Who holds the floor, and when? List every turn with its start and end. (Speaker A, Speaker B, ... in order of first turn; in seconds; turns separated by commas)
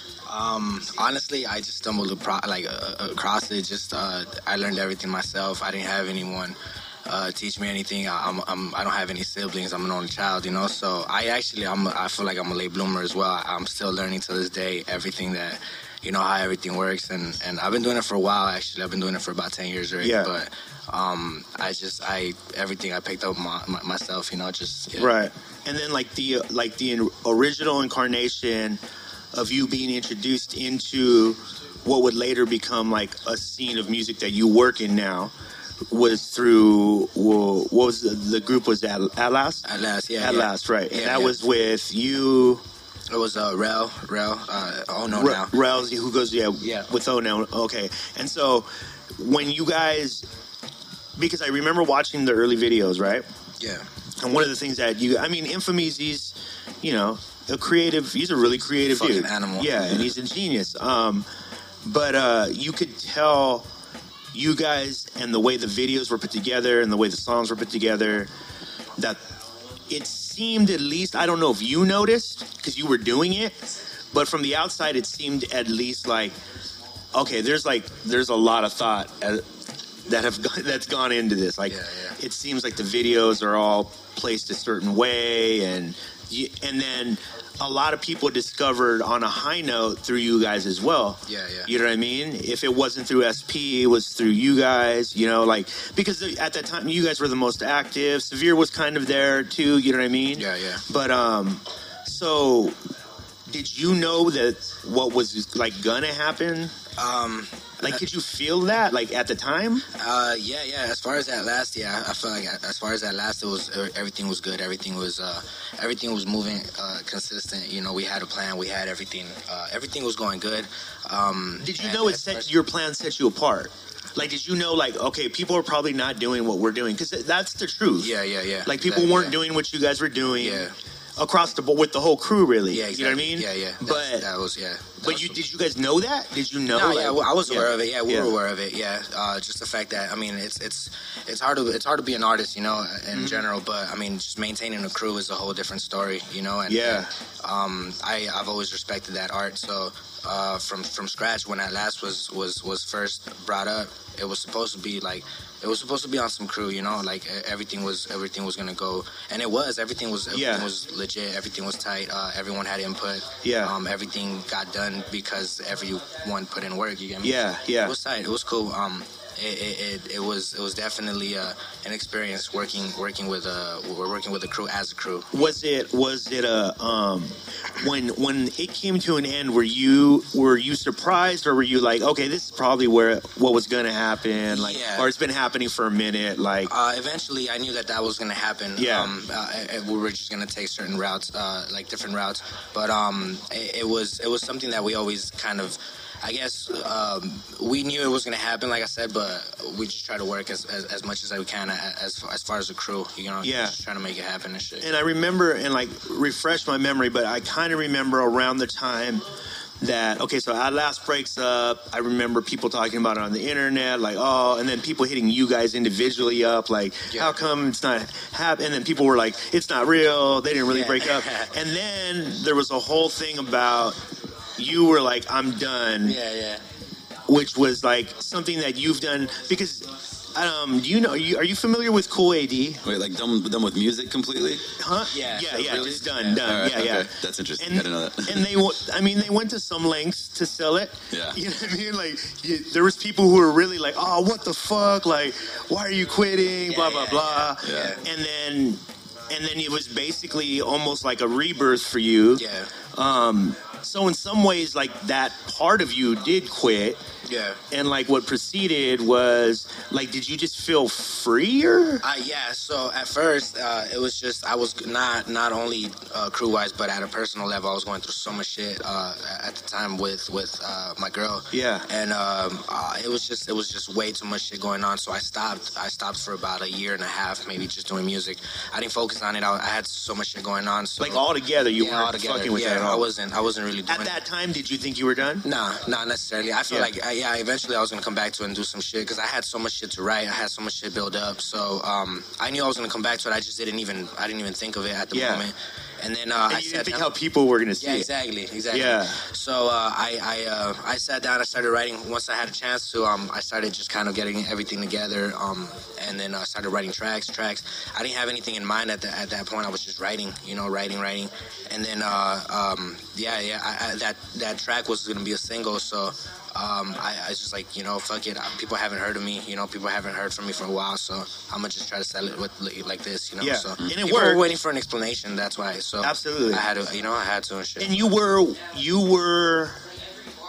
Speaker A: 0.3-25.2, Speaker B: 20.0-20.3, Speaker B: 25.0-28.8, Speaker B: 29.3-35.3, Speaker B: 35.9-39.6, Speaker A: 39.6-41.4, Speaker B: 40.2-42.6, Speaker A: 43.1-45.6, Speaker B: 45.1-50.3, Speaker A: 46.6-46.9, Speaker B: 51.2-53.3, Speaker A: 53.6-53.9, Speaker B: 54.2-61.3, Speaker A: 58.9-59.7, Speaker B: 61.8-63.7, Speaker B: 64.3-68.3, Speaker B: 69.9-76.3, Speaker B: 77.1-79.5, Speaker B: 80.0-102.8, Speaker A: 81.7-82.2, Speaker A: 91.3-91.7, Speaker A: 100.3-100.8, Speaker B: 103.5-106.7, Speaker A: 107.0-108.0, Speaker B: 107.8-109.8, Speaker A: 109.9-122.5, Speaker B: 121.6-128.1, Speaker A: 128.0-129.4, Speaker B: 128.7-130.6, Speaker A: 130.4-130.8, Speaker B: 131.2-134.3, Speaker A: 132.7-135.4, Speaker B: 135.0-138.3, Speaker A: 136.7-175.3, Speaker B: 143.1-143.4, Speaker B: 146.7-147.1, Speaker B: 160.3-160.7, Speaker B: 163.4-163.7, Speaker B: 167.2-167.9, Speaker B: 175.3-186.7, Speaker A: 184.5-185.1, Speaker A: 186.7-204.9, Speaker B: 188.8-189.1, Speaker B: 203.4-203.8, Speaker B: 204.8-209.2, Speaker B: 209.8-226.2, Speaker A: 220.7-221.5, Speaker A: 226.0-226.6, Speaker B: 227.3-232.8, Speaker C: 232.8-234.7, Speaker B: 234.8-257.0, Speaker A: 235.1-236.5, Speaker C: 236.4-238.6, Speaker C: 241.1-241.4, Speaker A: 246.7-248.0, Speaker C: 247.6-248.0, Speaker A: 252.3-252.7, Speaker A: 257.2-257.6, Speaker B: 257.7-262.0, Speaker A: 262.0-281.2, Speaker B: 271.5-271.9, Speaker B: 281.0-283.0, Speaker A: 281.8-284.2, Speaker B: 283.9-285.4, Speaker A: 285.4-297.1, Speaker B: 295.1-295.4, Speaker B: 296.5-298.1, Speaker A: 297.8-327.9, Speaker B: 298.7-299.2, Speaker B: 323.4-324.4, Speaker B: 326.0-326.6, Speaker B: 327.8-329.8